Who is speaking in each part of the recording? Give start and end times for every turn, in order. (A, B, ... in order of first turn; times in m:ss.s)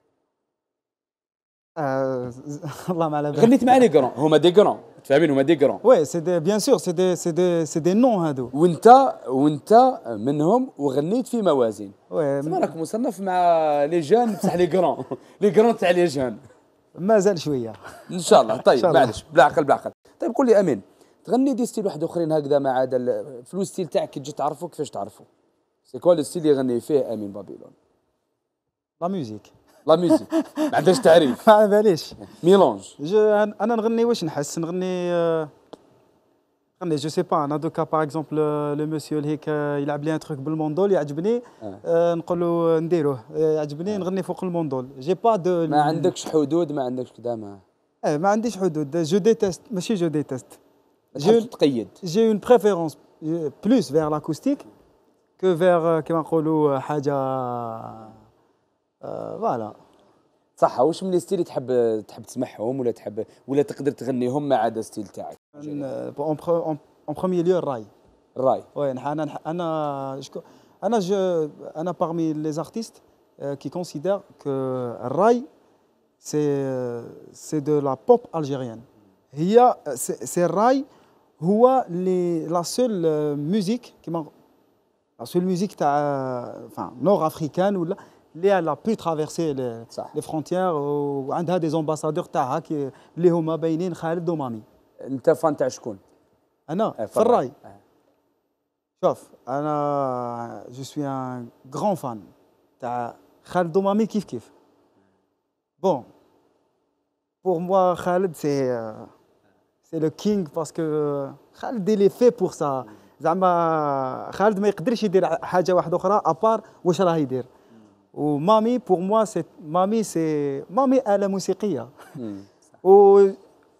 0:01.8-0:03.9 A
0:03.3-0:05.8 B
0:05.8-0:08.5 A
0:08.5-0:16.4 B
0:12.1-0:12.7 A
0:16.9-0:19.2 A
0:18.1-0:25.3 B
0:25.9-0:27.7 B
0:29.0-0:29.5 A
0:29.8-0:31.4 B
0:30.1-0:32.2 A
0:32.3-0:32.9 B
0:33.0-0:35.5 A
0:36.8-0:46.1 A
0:45.7-0:47.6 B
0:48.0-0:50.6 A
0:51.1-0:51.9 B
0:51.2-0:51.5 A
0:52.0-0:54.6 A
0:55.4-0:58.2 A
0:59.0-0:59.8 A
1:00.6-1:05.9 B
1:05.6-1:07.9 A
1:08.4-1:08.7 B
1:08.7-1:15.5 A
1:16.2-1:20.9 A
1:21.4-1:24.3 A
1:25.2-1:34.6 A
1:35.0-1:36.0 B
1:36.7-1:37.5 A
1:37.0-1:37.4 B
1:39.0-1:44.5 A
1:45.8-1:46.1 A
1:47.4-1:49.1 A
1:49.9-1:57.5 A
1:58.1-2:01.9 A
2:02.2-2:02.5 B
2:02.8-2:03.4 A